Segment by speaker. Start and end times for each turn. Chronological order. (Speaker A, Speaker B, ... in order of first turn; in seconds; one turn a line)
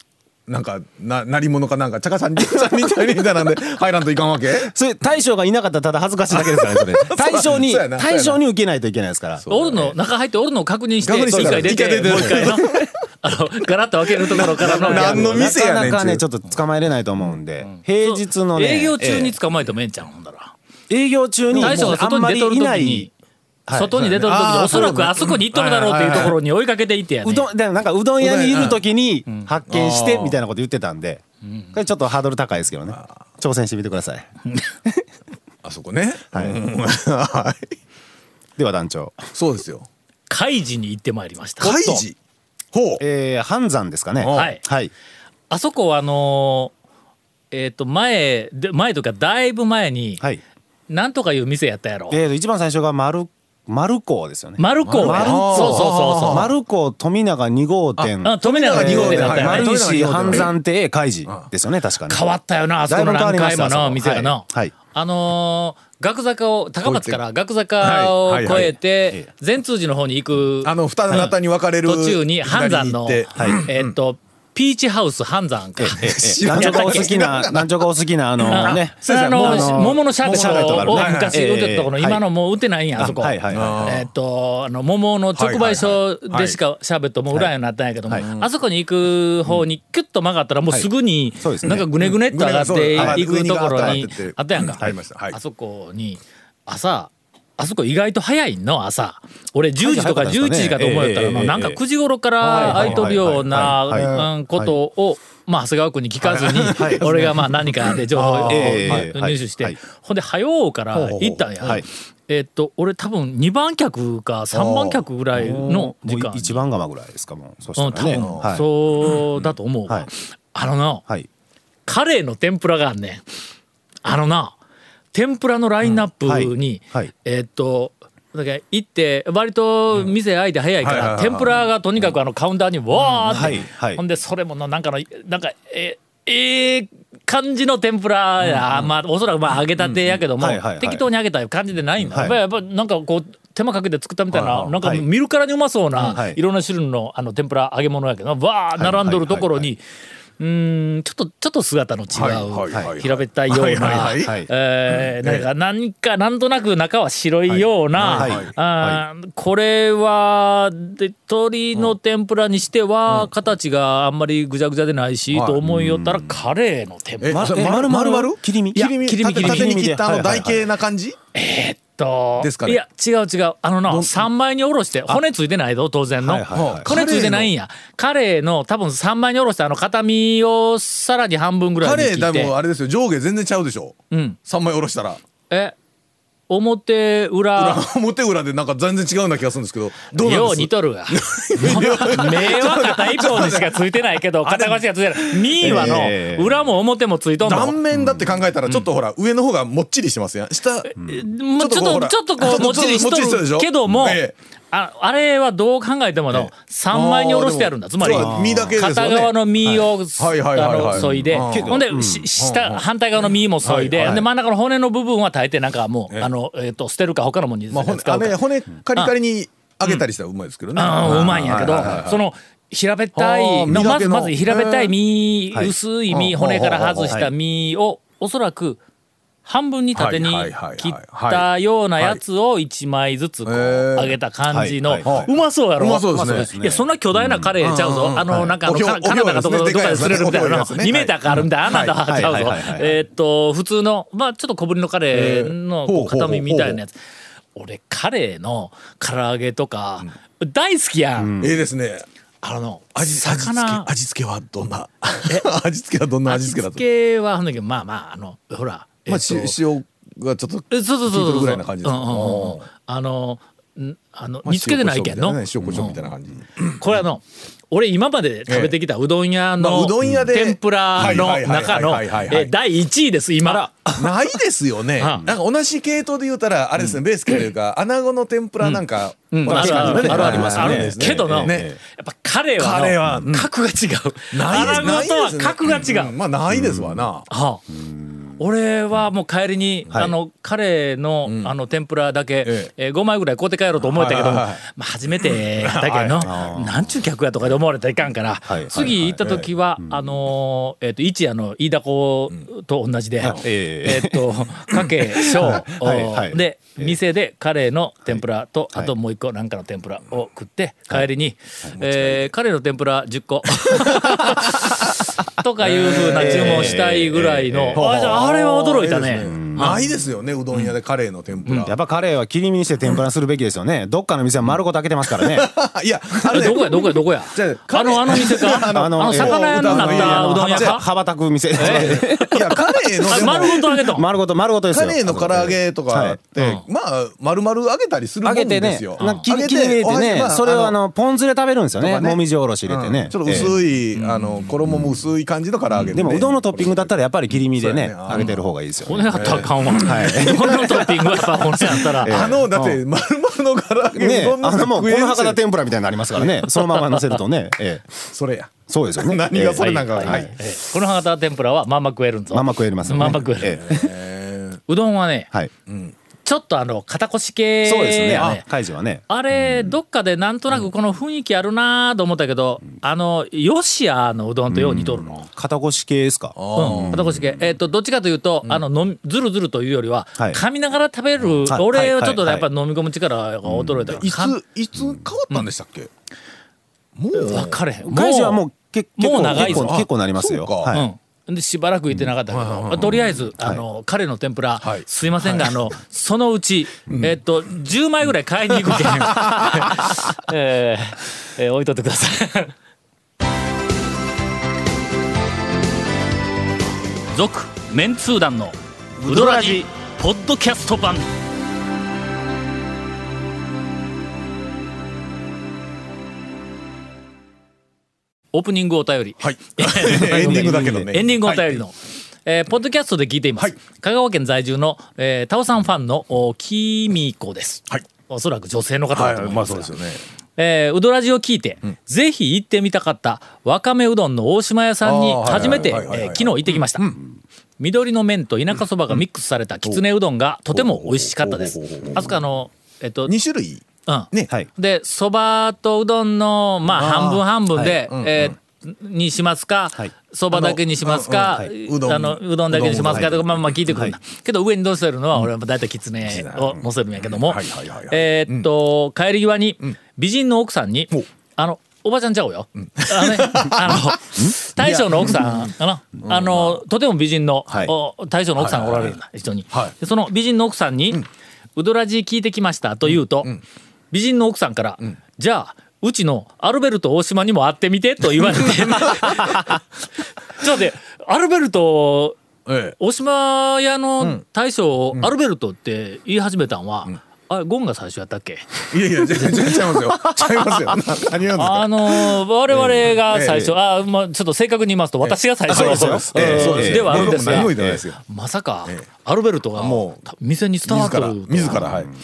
Speaker A: 0.5-4.7
Speaker B: 4.7-9.8
Speaker A: 6.3-8.4
Speaker A: 9.4-9.9
Speaker C: 9.5-15.6
Speaker A: 11.0-12.9
Speaker B: 11.4-12.3
Speaker A: 14.1-16.2
Speaker B: 14.6-19.4
Speaker C: 17.6-20.5
Speaker B: 20.9-23.1
Speaker C: 21.5-23.1
Speaker A: 21.5-22.0
Speaker B: 23.7-24.0
Speaker C: 23.7-27.5
Speaker A: 24.0-26.4
Speaker B: 27.2-34.3
Speaker A: 28.2-28.8
Speaker A: 29.7-30.4
Speaker A: 35.6-37.7
Speaker B: 36.3-36.6
Speaker B: 38.6-39.3
Speaker A: 39.4-39.9
Speaker C: 40.3-41.8
Speaker A: 41.6-42.2
Speaker B: 41.6-42.0
Speaker A: 42.7-43.0
Speaker B: 43.0-44.9
Speaker A: 44.2-44.5
Speaker C: 44.3-44.6
Speaker C: 45.5-46.7
Speaker C: 47.5-50.2
Speaker C: 50.9-52.2
Speaker B: 52.1-62.3
Speaker C: 54.6-56.5
Speaker A: 54.9-56.5
Speaker A: 58.0-60.5
Speaker C: 58.2-59.8
Speaker C: 62.1-77.2
Speaker B: 62.9-64.8
Speaker A: 66.8-67.2
Speaker A: 67.8-68.8
Speaker B: 68.5-69.3
Speaker A: 70.6-73.9
Speaker B: 73.4-73.7
Speaker B: 75.8-82.2
Speaker A: 76.0-77.8
Speaker A: 78.4-81.4
Speaker C: 78.4-116.7
Speaker B: 83.0-84.0
Speaker A: 83.5-84.1
Speaker A: 85.3-86.6
Speaker A: 88.2-88.5
Speaker B: 90.7-91.9
Speaker A: 91.7-95.4
Speaker B: 93.0-93.2
Speaker B: 93.8-94.0
Speaker B: 99.8-101.8
Speaker A: 102.4-104.3
Speaker B: 102.5-104.8
Speaker A: 106.2-109.1
Speaker B: 106.7-107.1
Speaker B: 108.4-109.8
Speaker A: 110.9-111.8
Speaker B: 111.6-111.9
Speaker A: 114.5-115.7
Speaker B: 115.3-118.7
Speaker C: 117.8-121.1
Speaker A: 118.1-118.5
Speaker A: 119.1-119.5
Speaker C: 121.9-123.2
Speaker C: 124.0-124.6
Speaker C: 125.1-149.8
Speaker B: 125.9-127.1
Speaker A: 130.8-131.6
Speaker A: 133.2-133.6
Speaker B: 133.3-134.0
Speaker A: 138.4-138.9
Speaker A: 139.8-140.2
Speaker B: 140.4-141.1
Speaker B: 142.1-142.4
Speaker A: 144.3-144.8
Speaker B: 144.8-145.1
Speaker B: 146.0-146.4
Speaker B: 148.8-149.7
Speaker C: 150.4-167.8
Speaker A: 152.1-155.5
Speaker B: 154.0-154.5
Speaker B: 157.5-159.0
Speaker A: 158.0-158.5
Speaker A: 165.3-165.6
Speaker B: 165.6-166.4
Speaker A: 167.2-171.2
Speaker B: 167.3-170.7
Speaker C: 168.7-169.8
Speaker C: 171.3-182.5
Speaker A: 172.4-172.8
Speaker A: 173.9-174.3
Speaker B: 176.2-176.9
Speaker A: 176.5-177.5
Speaker A: 181.8-185.2
Speaker C: 184.1-184.4
Speaker C: 185.5-185.8
Speaker C: 186.5-187.8
Speaker A: 187.6-193.8
Speaker C: 190.1-197.8
Speaker A: 194.4-196.1
Speaker B: 195.6-196.6
Speaker A: 197.4-200.9
Speaker C: 200.9-218.4
Speaker B: 201.0-201.3
Speaker A: 201.6-204.3
Speaker A: 206.3-209.3
Speaker B: 208.1-208.8
Speaker B: 209.6-209.9
Speaker A: 210.2-211.8
Speaker B: 210.8-212.3
Speaker A: 212.4-214.2
Speaker B: 214.0-214.3
Speaker A: 217.7-222.2
Speaker C: 220.8-228.8
Speaker B: 221.0-222.1
Speaker A: 223.2-224.9
Speaker A: 226.1-227.2
Speaker B: 227.0-227.3
Speaker C: 229.4-246.9
Speaker A: 229.9-231.5
Speaker A: 233.5-234.2
Speaker B: 234.5-235.2
Speaker A: 235.0-236.5
Speaker B: 236.1-237.6
Speaker A: 237.6-241.9
Speaker B: 241.8-242.9
Speaker A: 245.1-246.8
Speaker C: 247.6-251.4
Speaker B: 251.2-251.7
Speaker A: 251.4-252.1
Speaker C: 252.4-253.9
Speaker A: 252.9-256.8
Speaker C: 256.3-259.6
Speaker A: 259.1-262.7
Speaker C: 260.7-266.0
Speaker A: 264.4-266.8
Speaker C: 266.8-274.1
Speaker A: 268.5-268.7
Speaker A: 269.6-272.6
Speaker A: 274.0-281.7
Speaker C: 275.0-275.3
Speaker C: 278.6-286.1
Speaker B: 279.4-281.8
Speaker A: 282.6-283.5
Speaker A: 284.3-287.2
Speaker B: 286.5-287.1
Speaker C: 287.3-287.6
Speaker B: 287.7-288.4
Speaker C: 288.4-319.8
Speaker A: 291.3-291.5
Speaker A: 292.4-292.7
Speaker A: 293.9-294.6
Speaker A: 295.2-296.4
Speaker B: 296.2-296.9
Speaker B: 298.5-300.2
Speaker A: 299.2-299.5
Speaker B: 303.2-304.3
Speaker B: 305.4-307.0
Speaker B: 308.1-308.9
Speaker A: 311.8-312.3
Speaker A: 313.8-314.1
Speaker A: 315.6-317.1
Speaker B: 316.1-317.9
Speaker A: 317.7-321.8
Speaker B: 319.2-319.8
Speaker C: 321.5-321.8
Speaker B: 321.6-325.5
Speaker A: 324.4-330.8
Speaker C: 326.3-330.8
Speaker B: 328.7-336.2
Speaker A: 331.6-333.8
Speaker C: 331.6-334.1
Speaker A: 334.7-340.8
Speaker C: 336.4-336.6
Speaker B: 338.2-343.5
Speaker C: 339.0-339.3
Speaker A: 341.8-348.4
Speaker C: 343.3-344.5
Speaker B: 345.9-350.9
Speaker C: 348.1-352.2
Speaker A: 349.1-351.2
Speaker B: 351.5-352.8
Speaker A: 351.9-355.4
Speaker B: 354.0-358.0
Speaker A: 356.1-356.5
Speaker C: 356.6-357.2
Speaker A: 358.1-360.3
Speaker B: 358.7-360.3
Speaker C: 359.6-363.8
Speaker B: 362.3-363.8
Speaker A: 362.9-364.6
Speaker C: 364.7-365.3
Speaker A: 365.7-365.9
Speaker C: 366.2-368.4
Speaker B: 367.6-369.7
Speaker C: 369.1-375.2
Speaker B: 374.5-377.4
Speaker A: 376.4-377.2
Speaker C: 376.6-384.4
Speaker B: 381.5-382.5
Speaker B: 383.4-384.0
Speaker A: 383.9-385.9
Speaker A: 387.0-387.6
Speaker C: 387.1-388.4
Speaker B: 387.8-390.9
Speaker C: 389.0-389.8
Speaker A: 389.1-390.8
Speaker C: 390.7-402.5
Speaker A: 392.3-393.1
Speaker B: 393.1-393.6
Speaker A: 394.6-395.5
Speaker A: 398.7-399.7
Speaker C: 407.1-411.1
Speaker B: 409.0-409.7
Speaker C: 418.3-429.8
Speaker A: 419.2-421.6
Speaker B: 419.9-420.9
Speaker A: 428.9-430.0
Speaker C: 430.4-437.0
Speaker A: 434.8-437.0
Speaker C: 437.6-443.1
Speaker A: 440.5-442.2
Speaker A: 443.1-444.3
Speaker C: 443.9-471.1
Speaker A: 446.7-447.3
Speaker B: 447.6-448.3
Speaker A: 447.9-448.4
Speaker A: 450.3-453.6
Speaker B: 453.7-454.0
Speaker A: 456.1-458.5
Speaker A: 462.8-464.0
Speaker A: 464.6-465.5
Speaker A: 466.0-466.6
Speaker A: 468.4-469.0
Speaker C: 471.6-473.4
Speaker C: 473.9-479.6
Speaker A: 478.5-479.3
Speaker C: 480.3-482.2
Speaker A: 482.5-482.8
Speaker C: 482.8-488.5
Speaker A: 488.7-493.6
Speaker C: 489.2-489.5
Speaker C: 491.4-501.8
Speaker A: 495.0-498.0
Speaker B: 495.5-497.8
Speaker A: 499.6-500.0
Speaker A: 500.7-501.9
Speaker B: 501.6-501.9